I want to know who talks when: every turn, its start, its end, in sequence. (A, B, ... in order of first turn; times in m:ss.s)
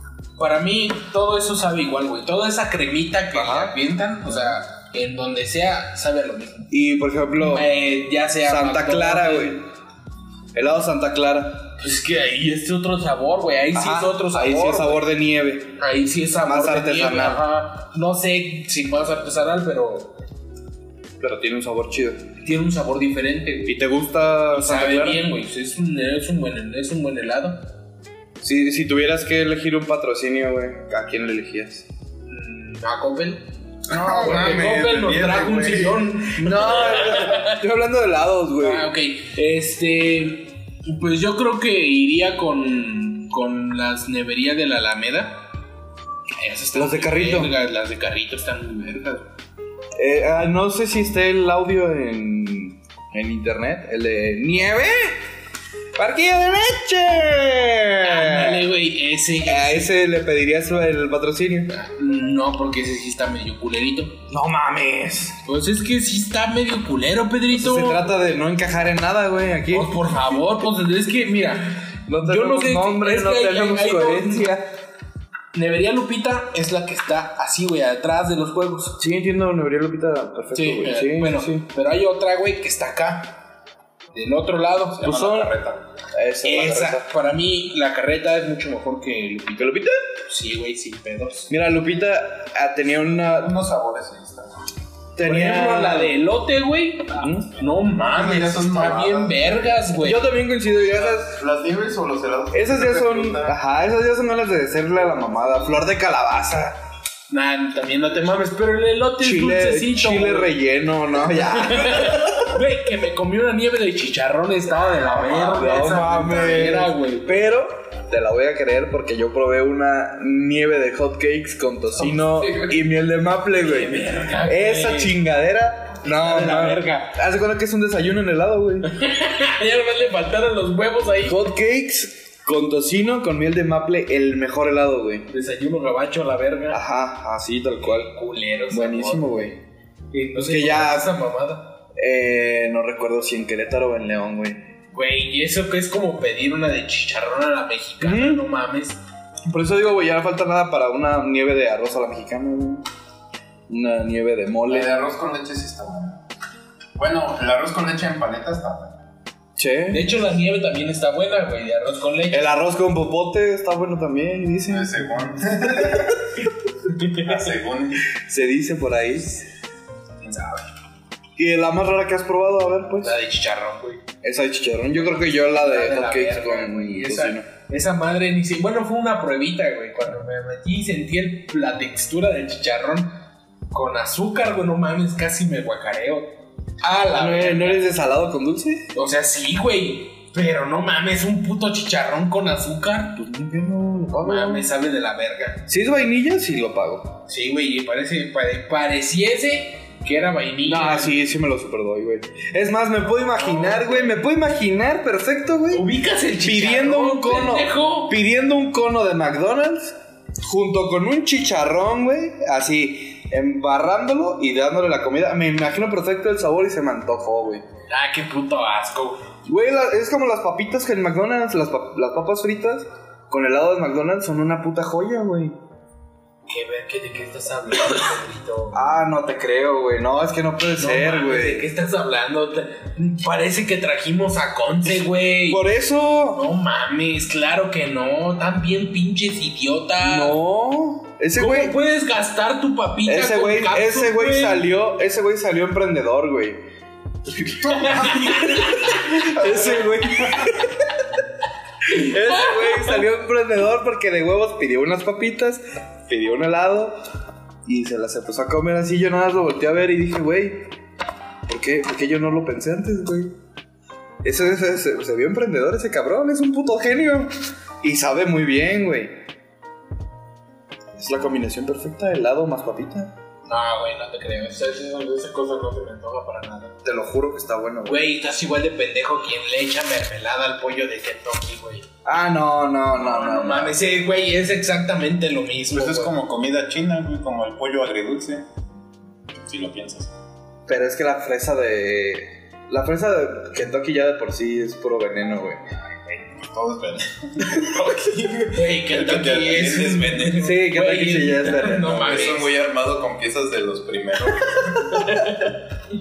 0:00.4-0:06.7 A
0:03.3-0:03.7 B
0:06.7-0:07.7 B
0:07.4-0:09.6 A
0:08.4-0:09.6 B
0:10.5-0:11.7 B
0:11.8-0:15.1 A
0:13.7-0:15.8 B
0:15.8-0:20.1 A
0:16.4-0:17.4 B
0:21.2-0:22.2 B
0:22.4-0:23.8 A
0:23.6-0:25.3 B
0:24.5-0:27.7 A
0:28.4-0:31.8 B
0:32.3-0:33.5 A
0:33.9-0:36.3 C
0:33.9-0:34.7 B
0:34.0-0:37.6 A
0:36.3-0:38.9 B
0:38.6-0:45.4 A
0:46.4-0:49.2 A
0:46.7-0:47.5 B
0:50.0-0:55.2 B
0:56.0-0:58.7 B
0:58.0-0:59.9 A
0:59.4-1:01.7 B
1:01.7-1:04.2 A
1:04.3-1:05.4 B
1:05.4-1:08.1 A
1:07.5-1:10.1 B
1:09.7-1:14.6 A
1:12.0-1:14.7 B
1:15.5-1:19.0 A
1:19.0-1:21.6 B
1:20.5-1:23.4 A
1:24.1-1:25.1 A
1:25.0-1:25.8 C
1:25.0-1:25.5 B
1:26.1-1:27.1 B
1:26.4-1:31.5 A
1:29.5-1:30.0 B
1:31.5-1:33.5 B
1:33.2-1:34.5 C
1:35.2-1:36.2 B
1:35.2-1:40.3 A
1:37.1-1:37.5 B
1:37.8-1:39.8 C
1:40.0-1:41.4 B
1:40.9-1:43.6 C
1:42.5-1:46.8 B
1:47.3-1:50.5 A
1:49.2-1:52.6 B
1:51.3-1:57.3 A
1:55.2-1:55.6 C
1:55.4-2:08.9 B
2:02.0-2:02.8 A
2:03.6-2:05.2 A
2:06.0-2:07.2 A
2:08.8-2:11.4 A
2:11.2-2:15.3 B
2:15.3-2:16.8 A
2:16.7-2:18.1 B
2:17.8-2:19.5 A
2:18.7-2:19.6 B
2:20.1-2:21.7 A
2:20.3-2:21.1 B
2:22.0-2:24.6 B
2:24.9-2:29.0 A
2:28.0-2:28.4 B
2:29.5-2:32.8 B
2:33.7-2:35.0 B
2:34.7-2:36.2 C
2:37.0-2:38.9 C
2:39.6-2:40.2 B
2:39.9-2:42.5 A
2:42.3-2:44.9 B
2:44.7-2:46.3 C
2:47.0-2:48.1 C
2:48.1-2:49.4 B
2:50.2-2:50.6 A
2:51.4-2:53.2 B
2:53.0-2:54.0 A
2:54.2-2:57.5 B
2:55.1-3:03.2 A
3:03.7-3:07.9 A
3:07.1-3:08.8 B
3:08.9-3:13.2 A
3:13.2-3:14.7 B
3:14.2-3:15.6 A
3:15.7-3:17.2 B
3:17.3-3:21.2 A
3:20.6-3:25.9 B
3:23.4-3:24.2 A
3:25.7-3:28.2 A
3:26.4-3:37.6 B
3:37.9-3:39.2 A
3:39.4-3:45.6 B
3:46.5-3:48.8 A
3:48.7-3:51.7 B
3:50.8-3:55.6 A
3:55.5-3:56.4 B
3:56.3-4:00.4 A
4:00.0-4:01.7 B
4:01.4-4:04.7 A
4:03.0-4:06.6 B
4:07.4-4:11.0 B
4:07.7-4:08.9 A
4:07.7-4:08.5 C
4:11.9-4:17.0 B
4:11.9-4:13.0 A
4:17.6-4:20.7 B
4:21.5-4:23.3 B
4:24.2-4:29.2 B
4:31.0-4:33.1 B
4:33.5-4:36.7 A
4:36.8-4:38.0 B
4:37.8-4:41.8 A
4:42.0-4:43.8 B
4:42.9-4:46.1 A
4:45.7-4:48.5 C
4:49.4-4:50.1 C
4:50.7-4:55.6 B
4:56.2-5:00.5 C
4:58.4-5:02.5 A
5:00.3-5:02.4 B
5:01.9-5:05.1 C
5:04.9-5:05.5 A